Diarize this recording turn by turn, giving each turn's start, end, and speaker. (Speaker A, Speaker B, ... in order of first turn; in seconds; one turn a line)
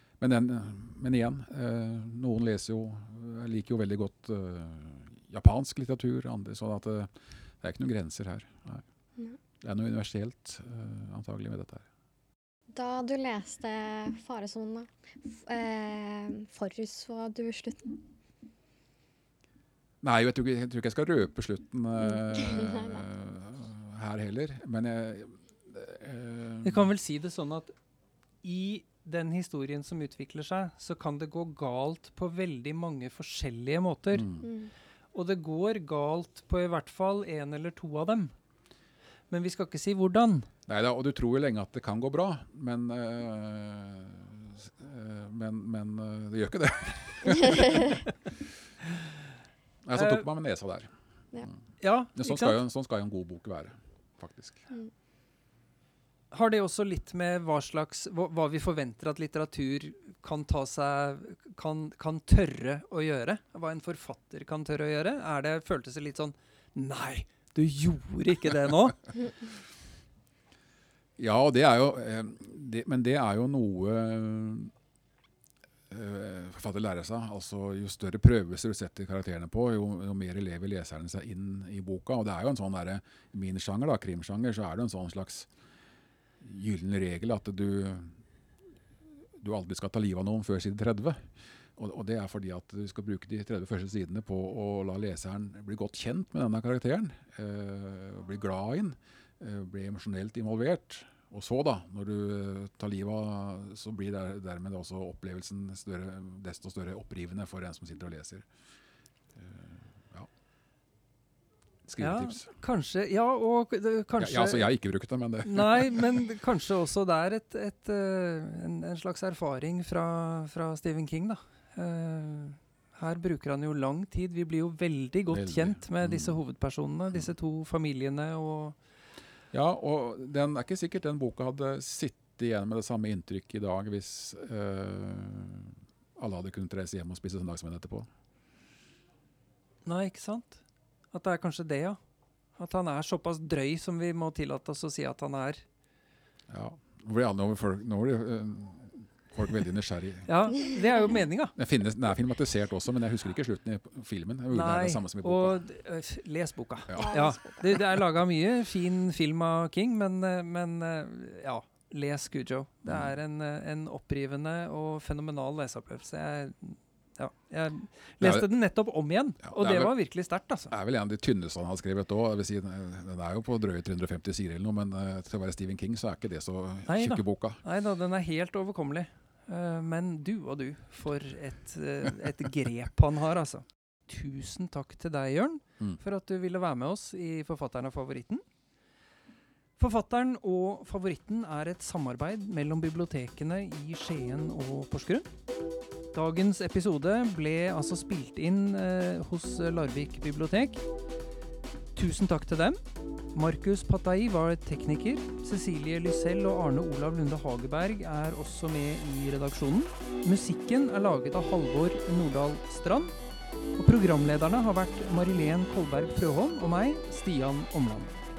Speaker A: 0.2-8.8
Speaker A: 9.6-11.8
Speaker B: 12.7-18.0
Speaker A: 20.0-26.9
Speaker B: 22.2-23.1
Speaker C: 26.6-27.7
Speaker C: 28.4-34.3
Speaker A: 34.1-34.5
Speaker B: 34.4-34.7
Speaker C: 35.1-38.3
Speaker C: 39.3-40.5
Speaker A: 40.7-48.0
Speaker B: 47.5-47.8
Speaker A: 49.8-50.9
Speaker C: 50.0-50.2
Speaker C: 51.8-52.6
Speaker A: 52.1-54.7
Speaker C: 56.3-69.1
Speaker A: 71.2-74.7
Speaker A: 75.9-85.5
Speaker A: 86.4-88.2
Speaker A: 89.4-108.5
Speaker A: 109.4-110.3
Speaker A: 111.9-112.5
Speaker C: 112.0-114.7
Speaker A: 114.2-116.1
Speaker C: 115.4-128.8
Speaker A: 125.3-126.4
Speaker A: 129.5-138.1
Speaker C: 139.8-142.0
Speaker C: 142.6-145.6
Speaker A: 146.5-150.3
Speaker C: 150.3-151.5
Speaker A: 151.6-155.6
Speaker C: 154.5-170.7
Speaker A: 156.9-157.2
Speaker B: 156.9-158.0
Speaker A: 162.8-163.2
Speaker A: 168.2-168.5
Speaker A: 169.4-169.9
Speaker A: 170.7-177.6
Speaker C: 176.9-188.4
Speaker C: 189.8-195.3
Speaker C: 196.1-200.8
Speaker C: 201.9-202.8
Speaker C: 203.3-213.1
Speaker C: 213.8-218.2